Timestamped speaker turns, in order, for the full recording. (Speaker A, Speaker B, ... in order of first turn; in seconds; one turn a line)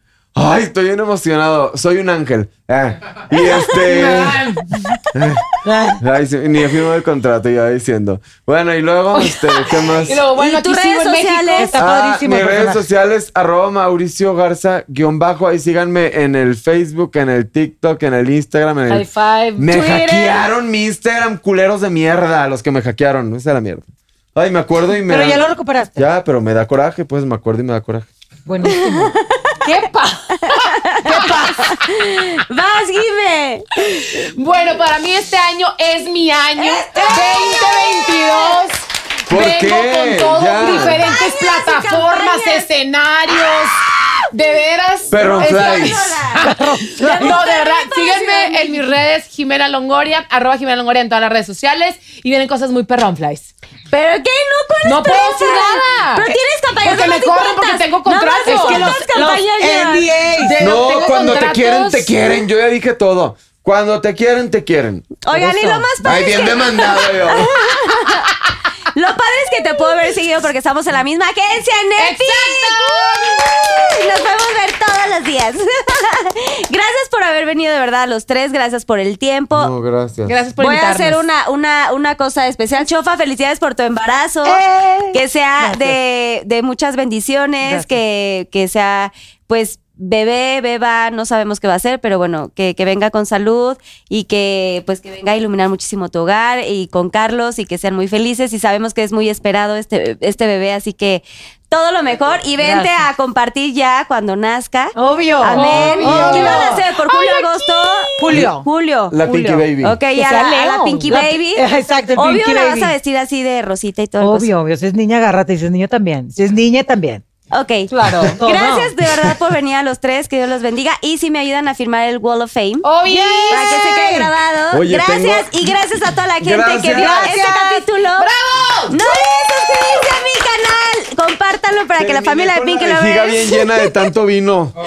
Speaker A: 0.3-4.6
Speaker B: 3.4-5.0
Speaker A: 5.1-5.5
Speaker C: 5.6-6.0
Speaker A: 6.0-10.3
Speaker B: 9.1-11.8
Speaker D: 10.3-11.8
Speaker C: 11.6-12.8
Speaker A: 11.8-28.1
Speaker B: 18.9-19.7
Speaker D: 19.7-20.5
Speaker C: 25.1-26.1
Speaker C: 28.4-29.1
Speaker D: 28.6-29.5
Speaker B: 29.6-31.7
Speaker D: 30.5-34.1
Speaker C: 31.0-31.3
Speaker B: 34.2-53.5
Speaker D: 36.6-38.6
Speaker A: 39.3-41.0
Speaker D: 40.8-42.7
Speaker D: 43.4-43.7
Speaker A: 45.1-46.0
Speaker D: 45.1-48.9
Speaker C: 46.4-47.4
Speaker D: 53.9-60.2
Speaker B: 54.8-56.3
Speaker B: 56.8-58.9
Speaker C: 58.4-60.7
Speaker B: 60.4-62.1
Speaker A: 60.6-65.1
Speaker D: 65.2-68.3
Speaker C: 65.3-65.9
Speaker A: 66.0-67.5
Speaker D: 68.9-79.7
Speaker B: 72.0-73.5
Speaker A: 79.5-80.3
Speaker B: 80.2-81.2
Speaker D: 80.6-109.2
Speaker C: 84.4-86.0
Speaker C: 87.6-87.9
Speaker C: 102.6-103.0
Speaker C: 104.9-106.8
Speaker B: 105.5-108.6
Speaker A: 105.5-106.7
Speaker C: 108.2-108.6
Speaker A: 109.1-110.0
Speaker B: 109.2-111.1
Speaker D: 109.8-114.5
Speaker C: 111.1-112.9
Speaker C: 114.2-117.2
Speaker D: 117.5-122.9
Speaker B: 117.9-118.3
Speaker C: 118.3-118.9
Speaker B: 122.8-123.7
Speaker C: 123.0-124.3
Speaker D: 123.5-128.3
Speaker A: 124.7-125.8
Speaker A: 126.4-127.3
Speaker C: 127.0-127.8
Speaker B: 127.0-127.6
Speaker B: 128.2-128.9
Speaker D: 128.9-134.1
Speaker A: 132.0-134.7